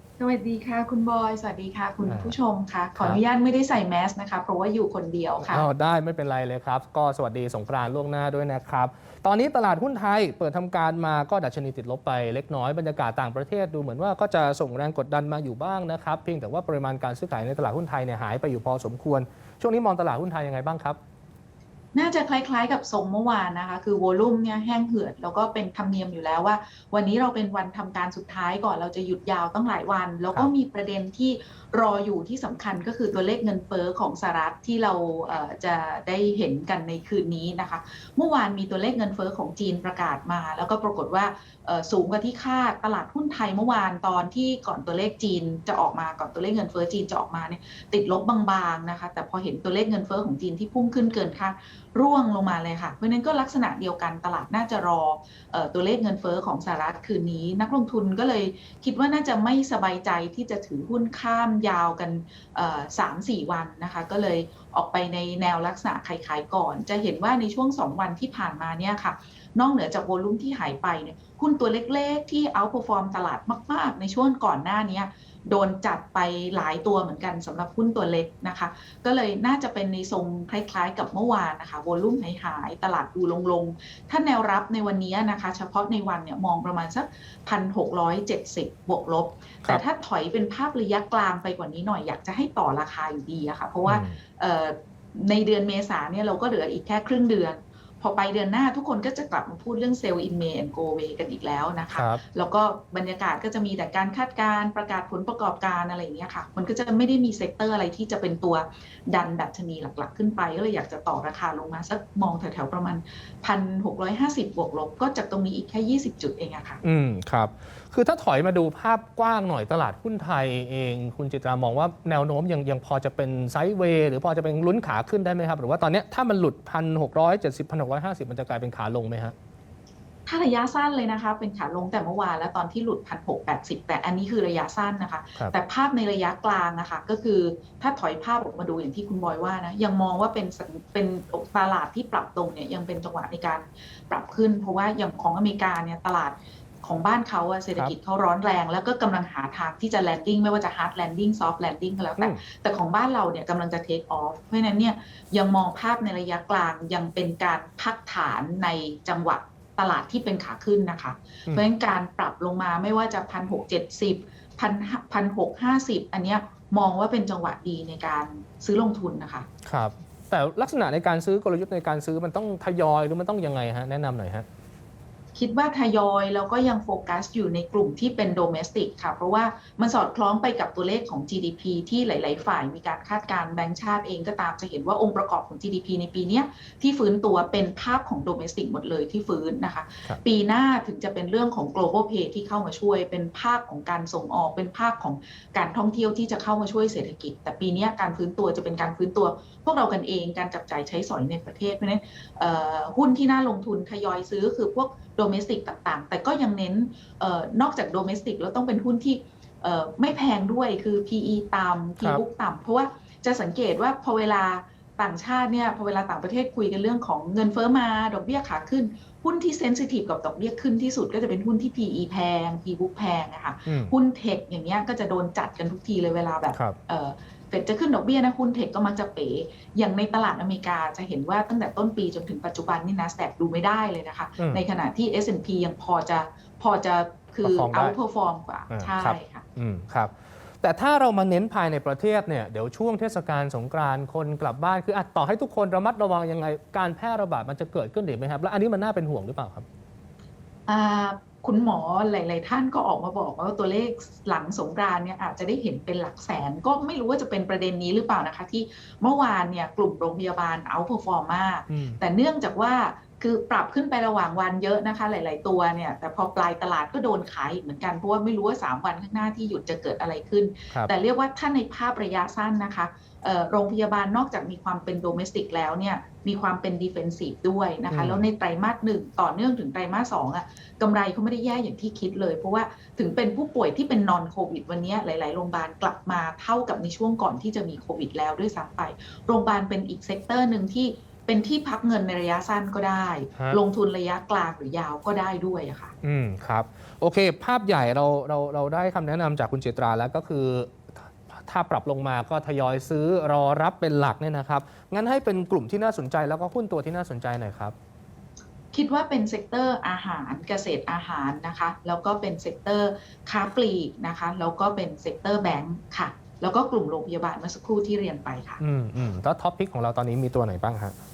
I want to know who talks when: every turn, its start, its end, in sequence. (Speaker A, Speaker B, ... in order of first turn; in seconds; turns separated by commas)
Speaker A: 0.2-5.7, Speaker B: 2.1-2.3, Speaker B: 5.4-21.0, Speaker A: 21.9-116.8, Speaker B: 93.9-94.2, Speaker B: 101.9-102.2, Speaker B: 116.8-129.3, Speaker A: 130.3-169.5, Speaker B: 169.7-174.5, Speaker A: 175.3-239.4, Speaker B: 223.7-223.9, Speaker B: 237.4-238.0, Speaker B: 238.7-249.7, Speaker A: 250.7-295.9, Speaker B: 261.7-262.0, Speaker B: 277.9-278.3, Speaker B: 296.0-307.8, Speaker A: 308.7-318.6, Speaker B: 318.6-321.0